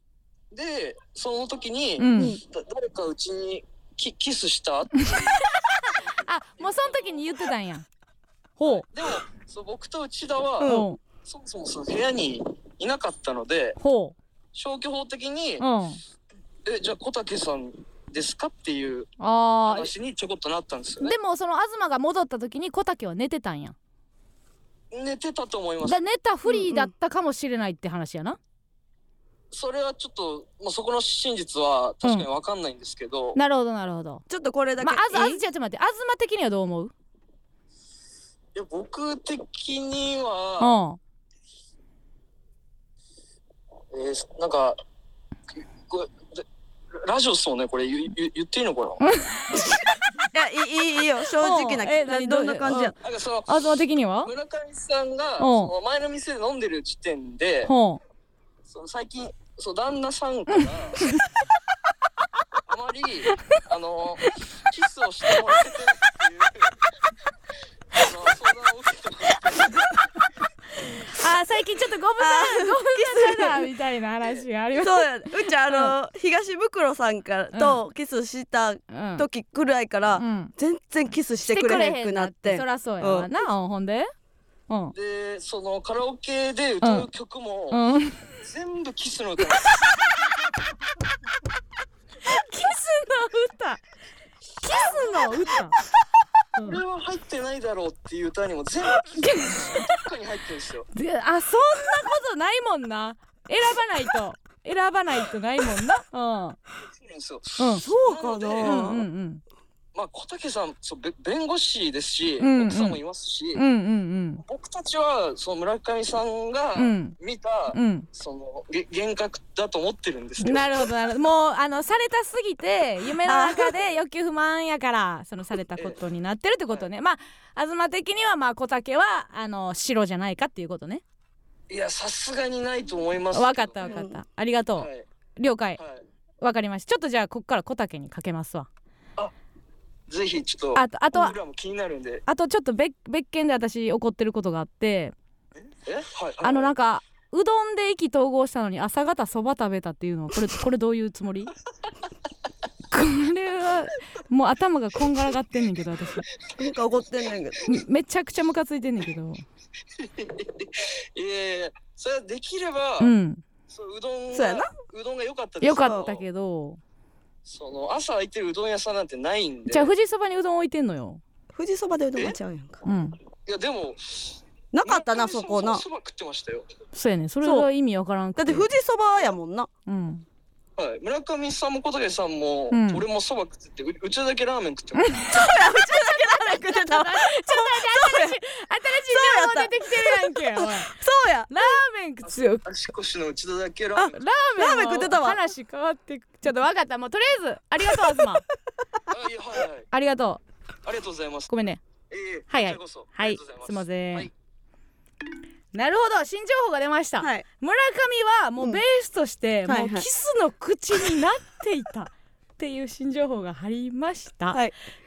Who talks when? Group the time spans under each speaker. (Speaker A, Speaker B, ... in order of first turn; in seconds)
Speaker A: 0.5-5.3, 6.7-7.2, 8.7-13.8, 14.5-15.7, 16.6-19.1, 19.6-21.1, 24.9-26.0, 29.5-33.4, 38.5-40.7, 43.9-44.8, 45.9-46.4, 47.0-49.0, 53.0-53.6, 54.2-57.7, 58.7-61.0, 62.7-66.7, 67.9-69.8, 84.9-87.8, 88.4-89.8, 94.7-95.4, 96.6-100.9, 106.8-108.9, 110.0-113.7, 114.4-120.7, 131.7-133.9, 134.8-135.1, 135.8-136.0, 140.1-142.2, 145.9-146.7, 160.0-163.1, 163.7-166.2, 167.4-169.9, 173.5-176.7, 180.8-185.1, 192.2-194.2, 199.1-199.9, 200.8-201.5, 202.1-204.3
Speaker B: 2.0-2.4, 5.1-7.9, 8.6-8.9, 10.6-11.0, 13.8-14.2, 15.6-16.0, 19.2-19.9, 21.0-23.8, 25.8-28.4, 32.0-32.3, 33.4-34.2, 34.8-36.9, 40.6-41.0, 49.0-49.7, 51.3-54.3, 55.4-55.7, 57.6-58.0, 70.8-76.0, 77.5-77.8, 78.9-79.3, 80.2-80.5, 81.4-84.1, 84.7-84.9, 86.8-87.1, 87.7-88.3, 92.2-93.8, 94.6-95.8, 96.5-96.8, 99.1-100.0, 100.9-106.6, 107.6-107.9, 108.6-109.4, 112.4-113.0, 113.5-114.4, 116.8-117.2, 117.7-118.1, 120.4-131.0, 133.3-135.8, 136.4-138.7, 140.8-141.4, 142.3-145.2, 146.4-151.5, 152.9-156.3, 157.7-159.4, 163.0-163.4, 165.6-166.8, 169.7-171.2, 172.8-173.2, 176.9-178.7, 179.9-180.3, 182.7-183.0, 184.9-190.9, 191.5-192.7, 194.1-198.4, 199.9-200.4, 201.5-201.8, 202.5-204.3, 205.7-214.6
Speaker C: 10.6-10.9, 26.5-26.9, 34.3-35.4, 50.3-53.0, 72.2-73.6, 74.8-83.3, 107.8-109.0, 123.3-123.7, 133.8-134.2, 156.6-157.7, 164.3-164.7, 171.5-172.8, 174.7-175.8, 177.4-177.7, 178.4-179.7, 185.3-188.4, 189.1-191.5, 194.0-195.4, 207.2-207.4, 209.7-210.1